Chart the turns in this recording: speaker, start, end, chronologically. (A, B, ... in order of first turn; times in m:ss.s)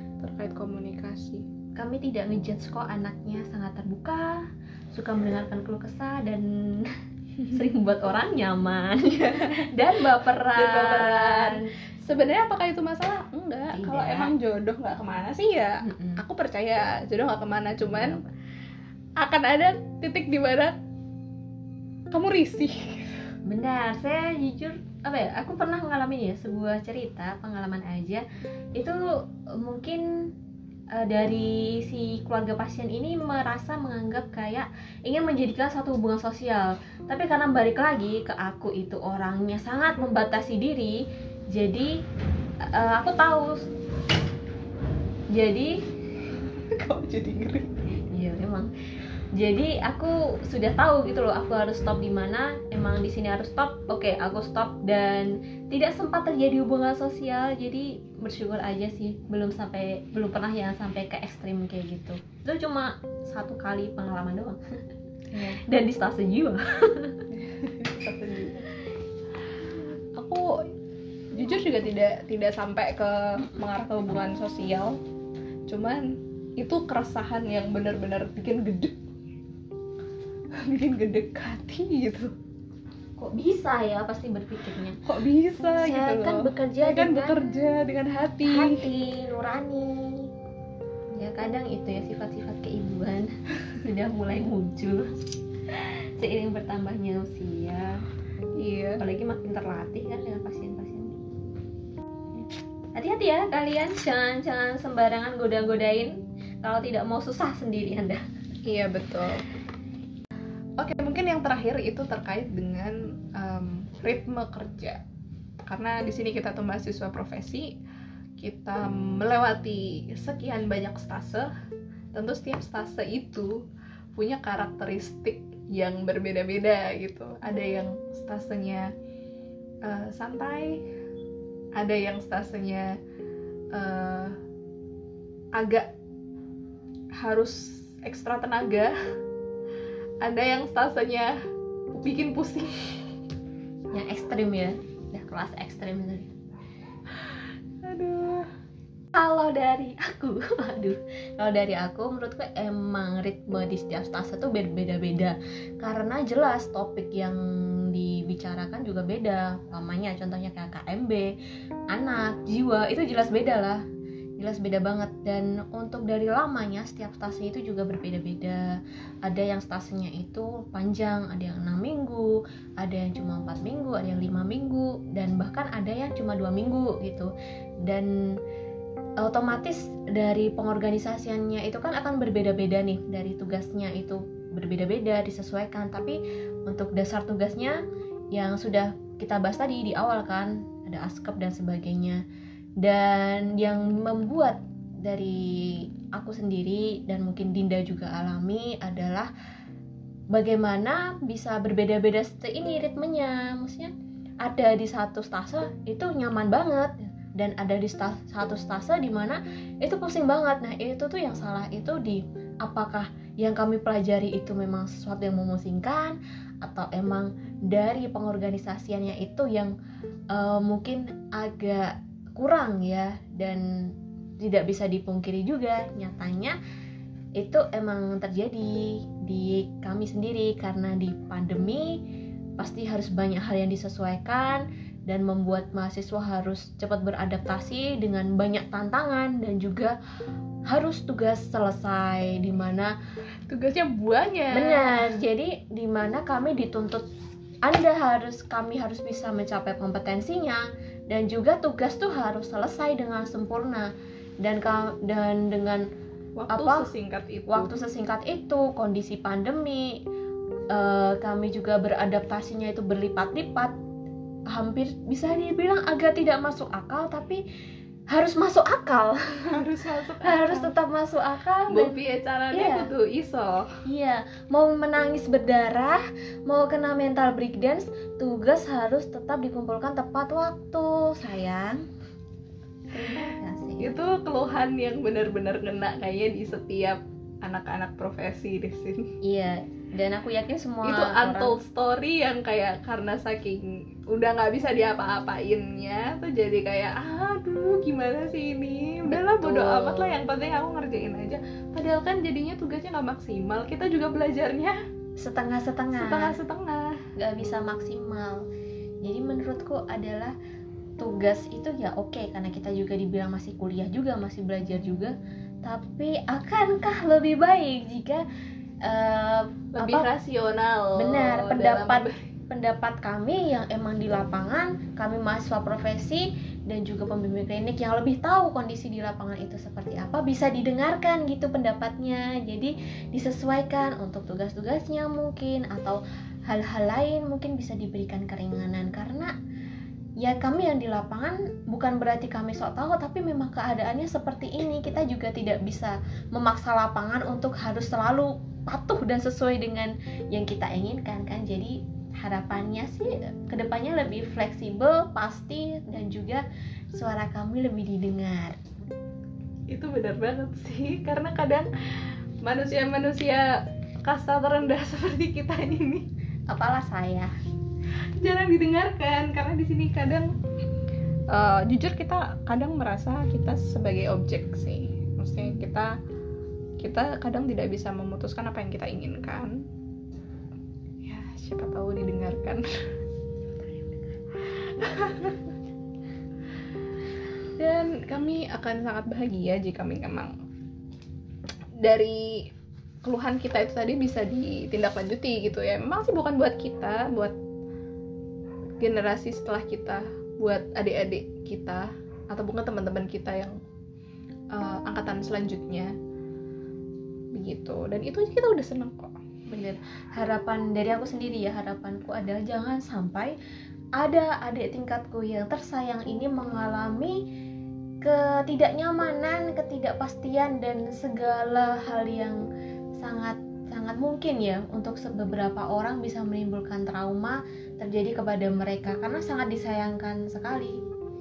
0:00.2-0:01.4 A
0:01.7-0:06.9 B
0:07.5-0:11.7 B
0:09.4-0:18.2 A
0:13.7-0:14.3 B
0:15.8-0:16.2 B
0:19.2-0:20.8 A
0:22.1-0:23.2 A
0:23.4-0:28.2 B
0:28.7-0:30.3 B
0:30.9-0:41.0 B
0:41.5-0:42.0 B
0:42.6-0:43.7 B
0:45.3-0:45.8 B
0:46.6-0:47.7 A
0:48.1-0:48.7 B
0:49.3-1:04.6 B
1:05.3-1:05.6 A
1:05.4-1:07.2 B
1:07.3-1:08.7 A
1:10.2-1:10.6 A
1:11.3-1:15.0 A
1:15.7-1:19.0 A
1:20.5-1:22.3 A
1:23.2-1:25.0 B
1:25.0-1:28.8 A
1:25.8-1:27.5 B
1:28.4-1:30.3 B
1:31.1-1:35.2 B
1:35.7-1:38.0 B
1:38.6-1:39.0 A
1:39.0-1:41.2 B
1:42.3-1:48.2 B
1:48.7-1:49.4 A
1:50.8-1:55.0 A
1:55.6-1:57.7 A
1:58.4-2:01.5 A
2:02.1-2:03.6 A
2:04.2-2:08.9 A
2:09.8-2:10.8 A
2:11.8-2:12.9 A
2:13.7-2:14.4 A
2:15.5-2:15.9 A
2:17.2-2:18.9 A
2:20.2-2:21.4 A
2:21.9-2:23.0 A
2:23.9-2:26.3 B
2:27.2-2:28.5 A
2:29.1-2:41.3 B
2:41.9-2:43.8 B
2:44.4-2:57.3 B
2:57.8-2:58.4 B
2:59.2-3:07.8 B
3:08.3-3:12.2 B
3:12.8-3:19.3 B
3:20.3-3:39.7 B
3:40.3-3:46.6 B
3:47.4-3:52.0 B
3:52.6-4:00.0 B
4:00.7-4:02.9 B
4:03.5-4:05.1 A
4:04.5-4:07.0 B
4:07.6-4:15.9 B
4:16.4-4:17.7 A
4:16.5-4:16.9 B
4:17.5-4:20.0 B
4:20.7-4:23.7 B
4:24.5-4:27.4 B
4:28.1-4:29.7 B
4:29.4-4:30.8 A
4:30.2-4:32.0 B
4:31.7-4:33.8 A
4:32.5-4:32.9 B
4:33.8-4:41.8 B
4:42.9-4:44.0 B
4:43.8-4:49.1 A
4:49.2-4:51.6 B
4:50.8-5:04.8 A
4:59.0-5:00.2 B
5:05.2-5:06.4 B
5:05.9-5:07.0 A
5:07.2-5:08.5 B
5:09.0-5:10.4 B
5:11.0-5:18.2 B
5:18.8-5:20.1 B
5:19.8-5:22.3 A
5:21.0-5:39.3 B
5:40.2-5:58.6 B
5:59.7-6:06.1 A
6:06.5-6:07.3 B
6:08.2-6:10.3 A
6:11.3-6:16.0 A
6:16.8-6:19.5 A
6:21.0-6:22.7 A
6:24.4-6:25.5 A
6:27.6-6:30.3 A
6:31.8-6:32.5 A
6:33.0-6:37.4 A
6:38.8-6:43.6 A
6:44.5-6:45.9 A
6:47.3-6:49.1 A
6:49.5-6:53.4 B
6:54.0-6:57.2 B
6:58.0-7:02.4 B
7:03.0-7:10.8 B